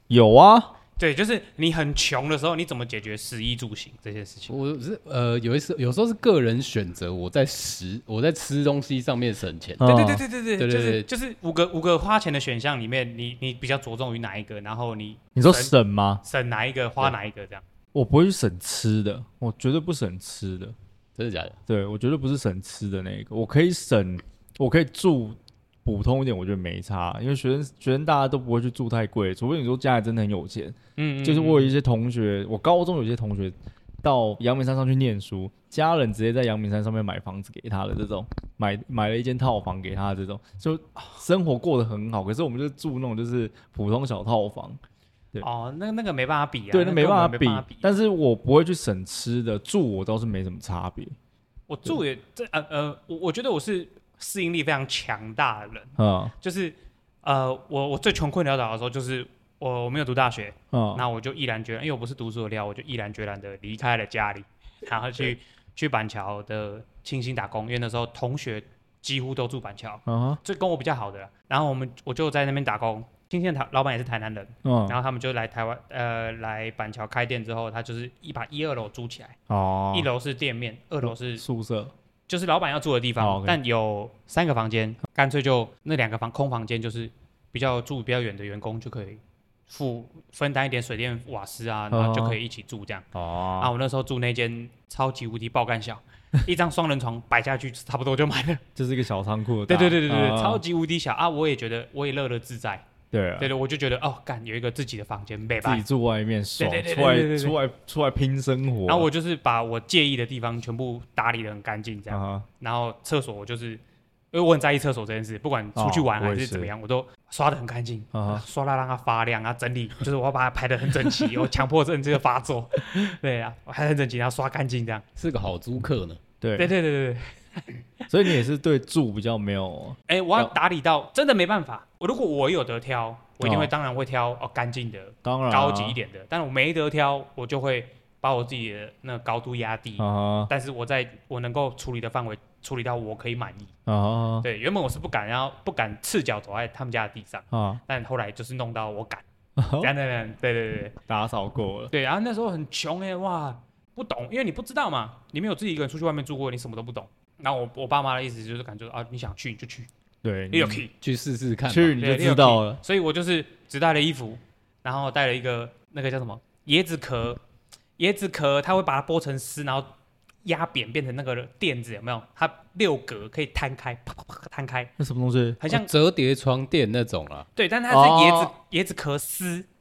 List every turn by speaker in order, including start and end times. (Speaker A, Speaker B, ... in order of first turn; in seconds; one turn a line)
Speaker A: 0.1-0.7
Speaker B: 1.0-4.5
Speaker C: 4.5-9.9
Speaker A: 9.8-10.2
Speaker B: 9.8-17.6
Speaker C: 10.6-11.1
Speaker A: 15.3-16.2
Speaker A: 17.9-20.7
Speaker C: 21.1-21.6
Speaker A: 21.7-44.8
Speaker B: 31.0-31.7
Speaker B: 45.4-47.9
Speaker A: 46.7-51.1
Speaker B: 51.7-79.4
Speaker A: 56.0-56.3
Speaker A: 60.7-61.0
Speaker A: 70.1-70.4
Speaker A: 74.6-75.0
Speaker A: 79.5-80.1
Speaker B: 79.9-81.4
Speaker A: 81.0-81.9
Speaker B: 82.3-93.0
Speaker A: 83.2-83.6
Speaker A: 91.9-92.4
Speaker A: 93.1-93.7
Speaker B: 93.6-98.6
Speaker A: 98.8-100.6
Speaker B: 99.7-102.8
Speaker A: 103.1-103.5
Speaker B: 103.4-105.8
Speaker A: 105.6-109.1
Speaker B: 106.6-107.6
Speaker B: 108.9-113.8
Speaker A: 112.1-112.5
Speaker B: 114.3-125.0
Speaker A: 115.7-116.7
Speaker A: 118.1-118.4
Speaker C: 125.2-126.2
Speaker A: 126.4-126.7
Speaker B: 126.6-127.8
Speaker A: 128.1-130.5
Speaker B: 130.1-143.7
Speaker A: 133.4-133.7
Speaker A: 135.2-136.0
Speaker A: 140.0-140.5
Speaker A: 143.8-144.4
Speaker B: 144.4-149.2
Speaker A: 147.5-147.8
Speaker A: 149.6-149.9
Speaker B: 149.8-150.9
Speaker A: 151.1-151.9
Speaker B: 151.9-159.9
Speaker A: 160.2-160.8
Speaker B: 160.5-160.9
Speaker C: 161.0-161.9
Speaker A: 161.7-162.8
Speaker B: 162.0-167.4
Speaker B: 168.0-169.9
Speaker B: 170.4-174.9
Speaker A: 175.0-175.6
Speaker B: 175.6-175.9
Speaker C: 175.7-177.5
Speaker B: 177.5-179.7
Speaker A: 177.9-178.5